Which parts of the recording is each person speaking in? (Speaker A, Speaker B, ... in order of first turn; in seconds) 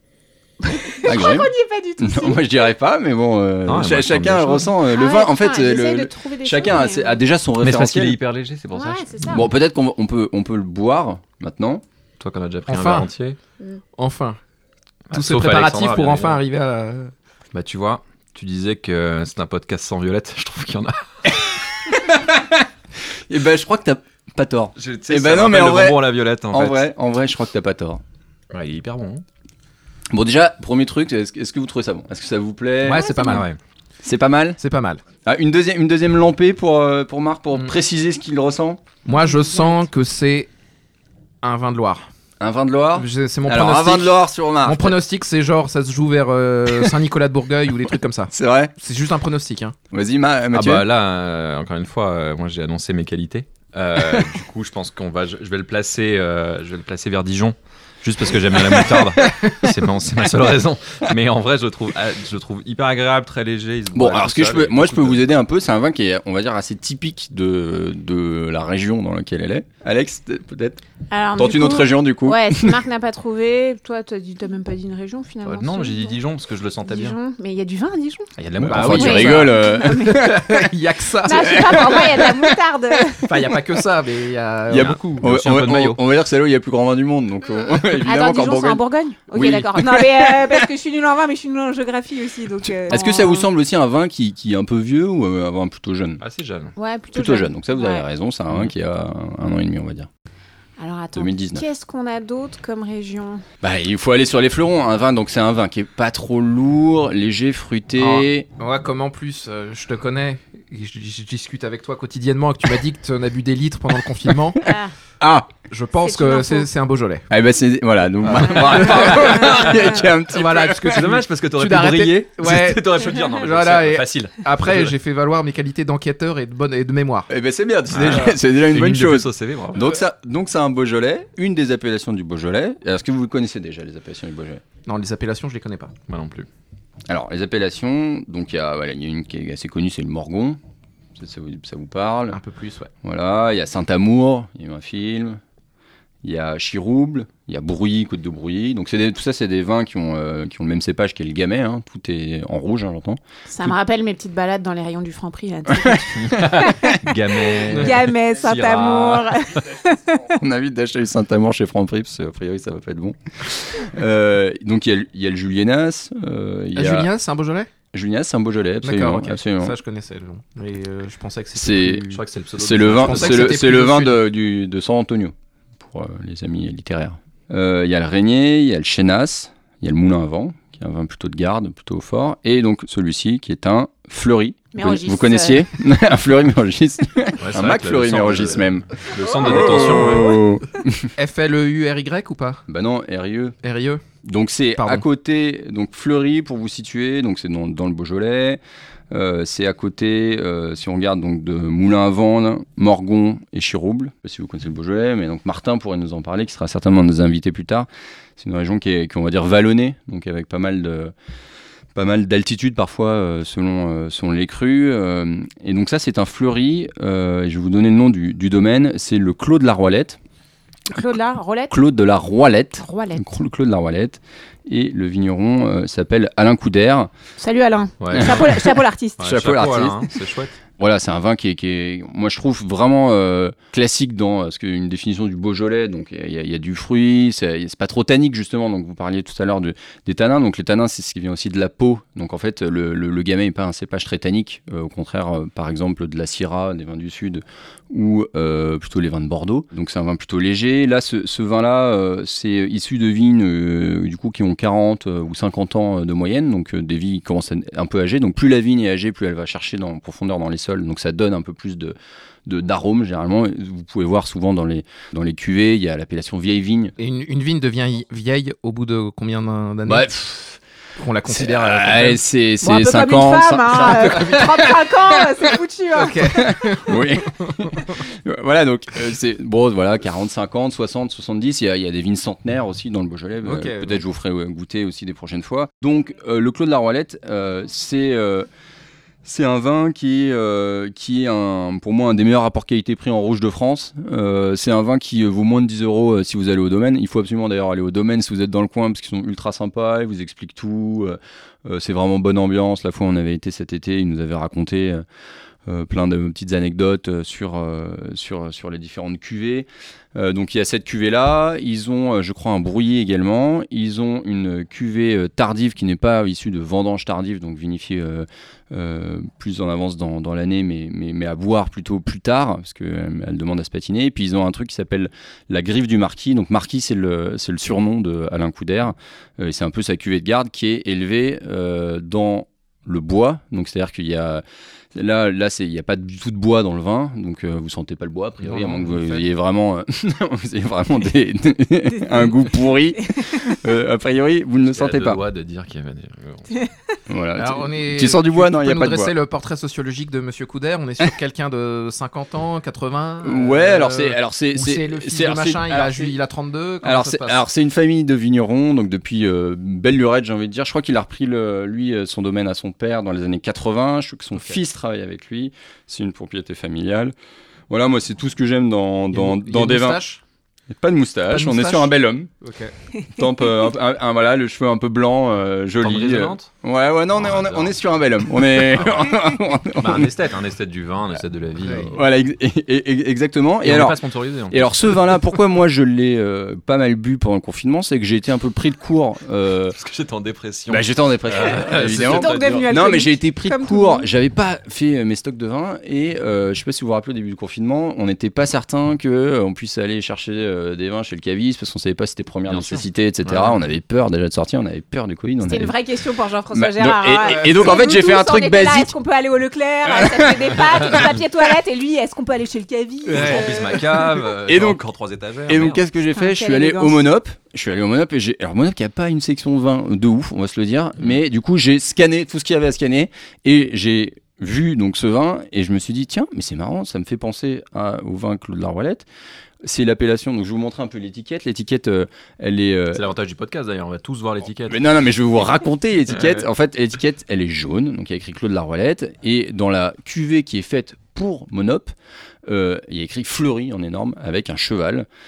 Speaker A: 0.6-2.6, 4.8-7.2, 8.7-9.4, 32.9-33.3, 71.1-76.2, 76.8-78.3, 78.9-80.5, 81.2-83.3, 88.0-93.5, 96.8-98.0, 100.8-103.4, 114.6-114.9, 115.9-116.7, 153.5-156.9, 157.6-160.3, 184.7-185.7, 220.9-221.8, 222.8-223.2, 227.4-229.3, 272.6-276.5, 391.9-394.1, 405.4-413.9, 416.1-417.1
Speaker B: 1.0-8.2, 9.3-11.8, 21.8-22.6, 23.3-28.0, 30.1-33.4, 34.0-34.6, 35.2-38.8, 42.4-45.0, 48.3-48.7, 49.9-50.9, 54.0-54.2, 63.9-70.8, 71.3-72.8, 78.6-80.7, 81.4-82.3, 84.7-90.7, 92.7-96.2, 97.1-100.1, 101.1-101.6, 103.6-108.5, 115.2-115.5, 117.3-121.1, 127.3-134.6, 137.1-140.6, 141.2-142.4, 143.0-145.4, 146.2-153.7, 155.7-157.0, 160.4-167.1, 167.9-169.8, 171.6-191.1, 192.7-193.6, 194.2-211.1, 211.9-220.2, 221.7-227.1, 228.1-228.7, 229.2-230.1, 230.8-261.9, 262.5-266.9, 269.9-270.6, 271.3-274.8, 276.3-288.5, 289.2-305.0, 305.7-334.4, 334.9-345.2, 347.1-349.1, 353.2-356.1, 356.8-367.1, 367.7-370.0, 370.7-372.3, 373.1-380.1, 381.9-389.8, 390.7-405.7, 406.5-408.9, 409.9-411.0, 413.1-413.7, 414.4-414.8, 415.5-429.1, 429.6-433.1, 434.7-441.9, 442.5-445.1
Speaker C: 3.6-4.7, 7.6-9.5, 12.2-13.4, 15.1-16.4, 17.5-21.4, 24.8-26.9, 28.5-29.2, 33.2-33.6, 50.5-65.2, 75.5-77.2, 78.4-79.5, 84.8-85.9, 96.2-96.7, 118.7-120.2, 120.9-124.9, 127.9-129.8, 136.1-136.5, 156.2-159.6, 172.1-173.6, 187.4-190.4, 228.0-228.6, 229.2-230.5, 344.7-346.7, 375.8-376.5, 377.1-377.8, 378.5-382.0, 383.6-384.6, 389.7-392.8, 402.5-403.6, 413.1-415.8, 432.9-434.8, 436.1-436.4
Speaker D: 12.7-13.1, 13.9-14.4, 15.1-17.1, 32.8-33.5, 34.6-35.0, 39.0-40.5, 41.4-42.0, 42.9-49.8, 78.6-82.4, 83.2-86.0, 108.0-114.6, 115.6-117.3, 118.3-118.7, 120.3-127.3, 134.8-136.0, 142.3-142.9, 157.7-157.9, 166.7-167.7, 168.8-172.2, 172.9-174.2, 189.5-190.4, 191.2-192.6, 193.6-194.0, 194.8-195.0, 267.0-270.1, 271.0-272.2, 273.9-274.4, 275.9-277.6, 283.4-284.0, 338.4-339.2, 347.4-357.4, 364.3-364.6, 369.1-370.2, 371.3-372.7, 381.6-381.9